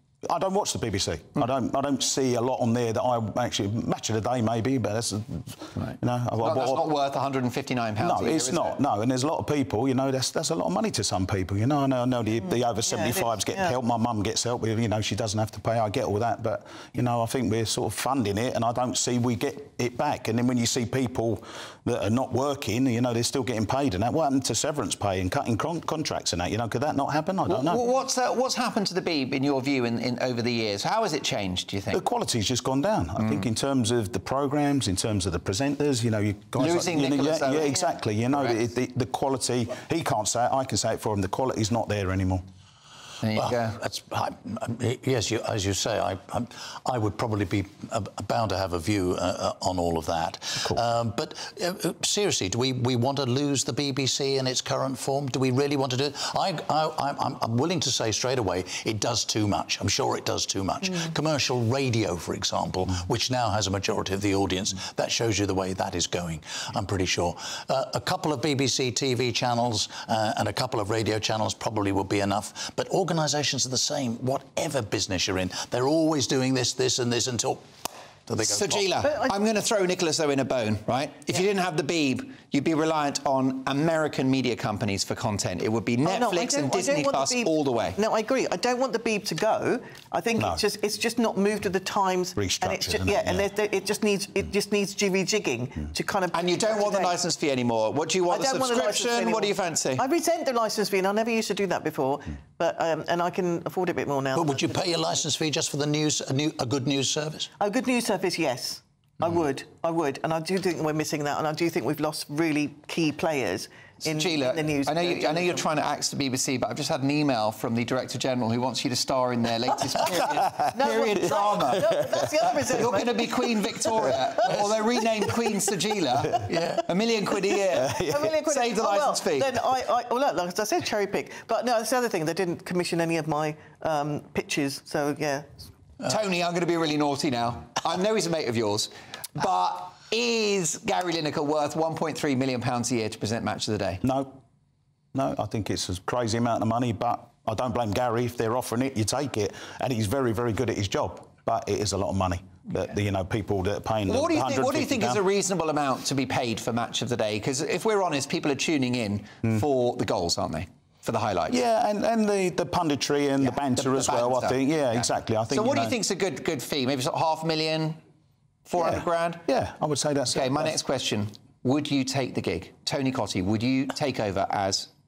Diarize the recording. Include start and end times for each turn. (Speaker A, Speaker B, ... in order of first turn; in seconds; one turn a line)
Speaker A: 0.3-6.9
Speaker B: 5.8-8.8
Speaker A: 8.0-27.8
Speaker C: 12.4-13.8
Speaker B: 27.5-32.0
Speaker A: 31.9-42.4
Speaker B: 33.2-33.5
Speaker B: 36.6-38.6
Speaker B: 43.2-43.8
Speaker D: 43.4-77.7
Speaker D: 78.3-78.9
Speaker B: 78.4-88.0
Speaker C: 79.0-79.3
Speaker C: 86.0-97.2
Speaker A: 90.4-90.6
Speaker A: 92.4-93.5
Speaker B: 96.3-100.0
Speaker C: 98.3-104.8
Speaker D: 104.3-107.5
Speaker C: 107.6-115.7
Speaker B: 114.1-129.5
Speaker C: 120.8-124.1
Speaker D: 126.5-126.8
Speaker A: 127.8-128.2
Speaker C: 127.9-135.6
Speaker B: 136.1-144.0
Speaker A: 144.0-144.4
Speaker A: 145.1-155.2
Speaker B: 154.1-161.6
Speaker A: 161.5-165.9
Speaker B: 163.4-168.0
Speaker B: 168.7-169.4
Speaker A: 168.8-170.8
Speaker B: 170.3-174.9